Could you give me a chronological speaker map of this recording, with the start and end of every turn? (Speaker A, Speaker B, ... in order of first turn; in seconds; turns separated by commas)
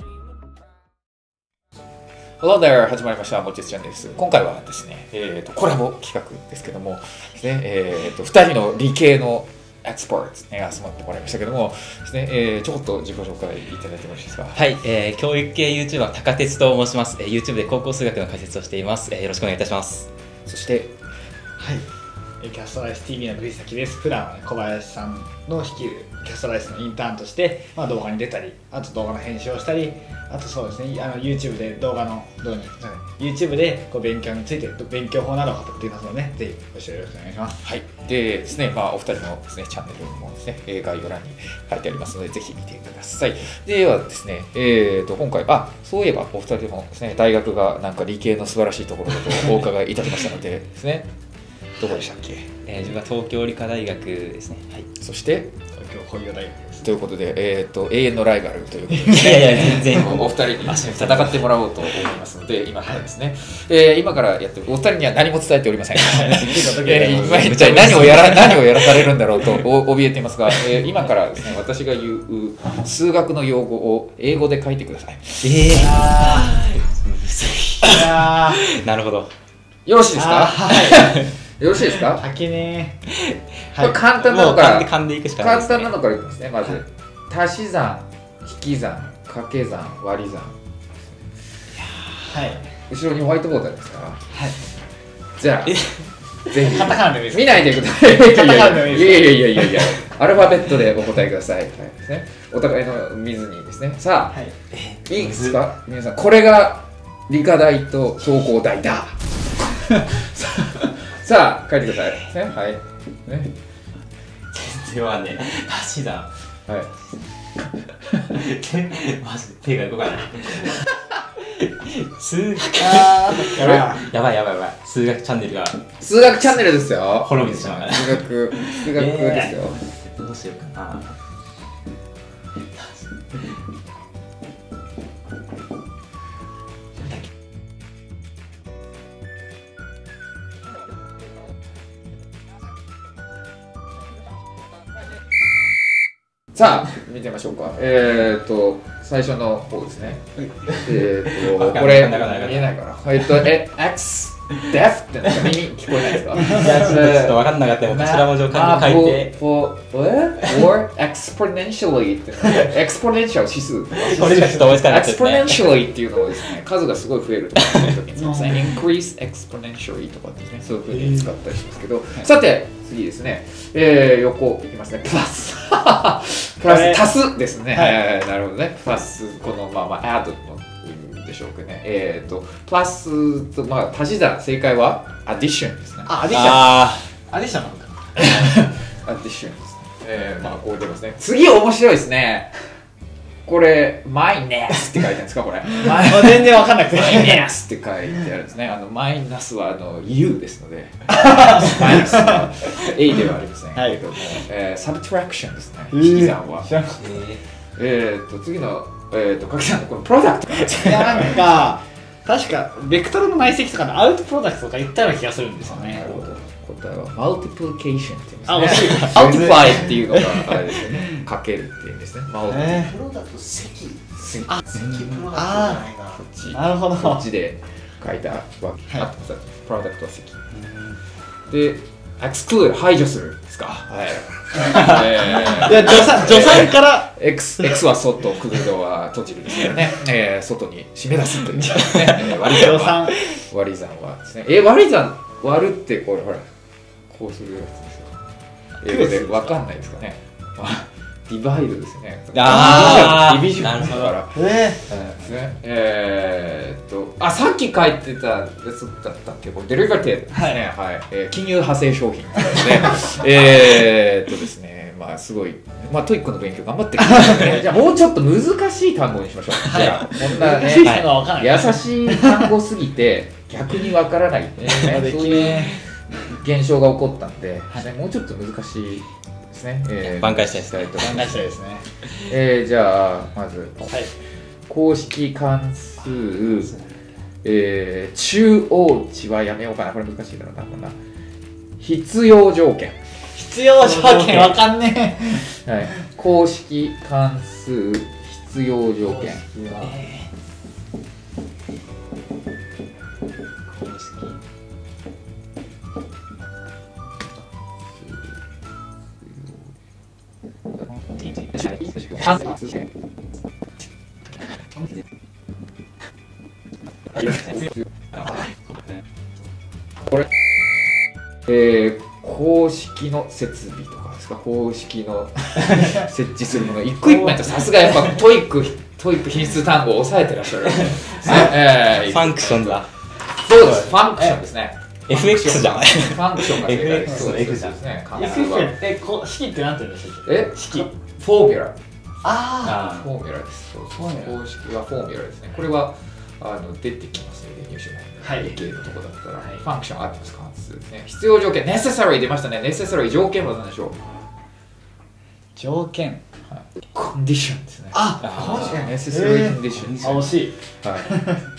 Speaker A: 2.4-14.6, Speaker B: 14.5-20.1, Speaker A: 20.5-20.9, Speaker C: 21.6-21.9, Speaker C: 22.4-37.6, Speaker A: 37.6-51.1, Speaker A: 51.8-52.5, Speaker B: 52.6-54.7, Speaker A: 55.0-55.5, Speaker C: 55.8-56.8, Speaker A: 56.8-75.8, Speaker B: 59.1-61.5, Speaker C: 66.2-68.2, Speaker B: 67.3-69.0, Speaker B: 75.4-79.3, Speaker C: 75.8-76.5, Speaker C: 77.9-78.6, Speaker A: 79.9-82.2, Speaker C: 80.1-81.2, Speaker C: 81.9-83.0, Speaker B: 83.1-83.7, Speaker A: 83.8-90.6, Speaker B: 84.2-86.0, Speaker C: 91.9-92.6, Speaker A: 92.8-94.3, Speaker A: 95.4-104.5, Speaker B: 95.7-96.1, Speaker C: 96.5-99.9, Speaker B: 104.7-105.6, Speaker A: 105.0-113.5, Speaker B: 114.5-116.3, Speaker B: 118.2-131.2, Speaker C: 122.8-124.0, Speaker A: 126.0-129.8, Speaker B: 132.8-133.6, Speaker A: 146.5-186.2, Speaker B: 151.3-152.7, Speaker B: 156.3-159.3, Speaker B: 164.0-165.7, Speaker C: 164.2-164.7, Speaker C: 168.2-168.7, Speaker C: 176.7-177.0, Speaker C: 186.1-188.6, Speaker B: 186.3-187.1, Speaker A: 188.2-192.6, Speaker A: 193.5-206.8, Speaker C: 195.8-197.5, Speaker C: 205.9-207.2, Speaker B: 207.0-207.4, Speaker A: 207.7-211.7, Speaker C: 210.8-216.2, Speaker A: 215.6-222.9, Speaker C: 218.5-220.8, Speaker C: 222.7-222.9, Speaker D: 223.0-224.0, Speaker A: 224.1-224.6, Speaker B: 224.8-225.3, Speaker D: 225.0-226.0, Speaker C: 225.3-225.9, Speaker A: 226.1-230.4, Speaker C: 226.5-227.2, Speaker A: 231.5-246.5, Speaker C: 235.5-237.1, Speaker C: 242.2-243.2, Speaker A: 247.1-248.2, Speaker A: 248.8-254.4, Speaker C: 248.9-249.5, Speaker B: 252.3-254.2, Speaker C: 254.3-254.8, Speaker B: 254.9-255.2, Speaker A: 255.2-281.5, Speaker B: 269.7-270.1, Speaker C: 269.8-272.3, Speaker B: 270.8-271.1, Speaker C: 274.7-275.8, Speaker B: 280.0-281.3, Speaker C: 281.0-281.9, Speaker A: 282.1-284.1, Speaker A: 284.7-286.8, Speaker A: 287.4-291.0, Speaker A: 291.8-293.0, Speaker C: 293.3-295.5, Speaker B: 294.0-294.5, Speaker A: 295.4-299.4, Speaker C: 299.1-300.0, Speaker B: 299.8-300.3, Speaker B: 303.7-304.4, Speaker A: 308.0-308.3, Speaker B: 311.2-312.4, Speaker A: 311.6-312.8, Speaker A: 321.5-338.8, Speaker B: 331.2-332.9, Speaker B: 333.6-333.9, Speaker B: 335.1-337.8, Speaker C: 338.1-340.9, Speaker A: 340.3-341.8, Speaker C: 342.2-342.9, Speaker A: 342.7-354.0, Speaker C: 348.2-348.5, Speaker C: 355.6-356.2, Speaker A: 356.5-361.1, Speaker C: 357.9-361.4, Speaker B: 358.2-358.7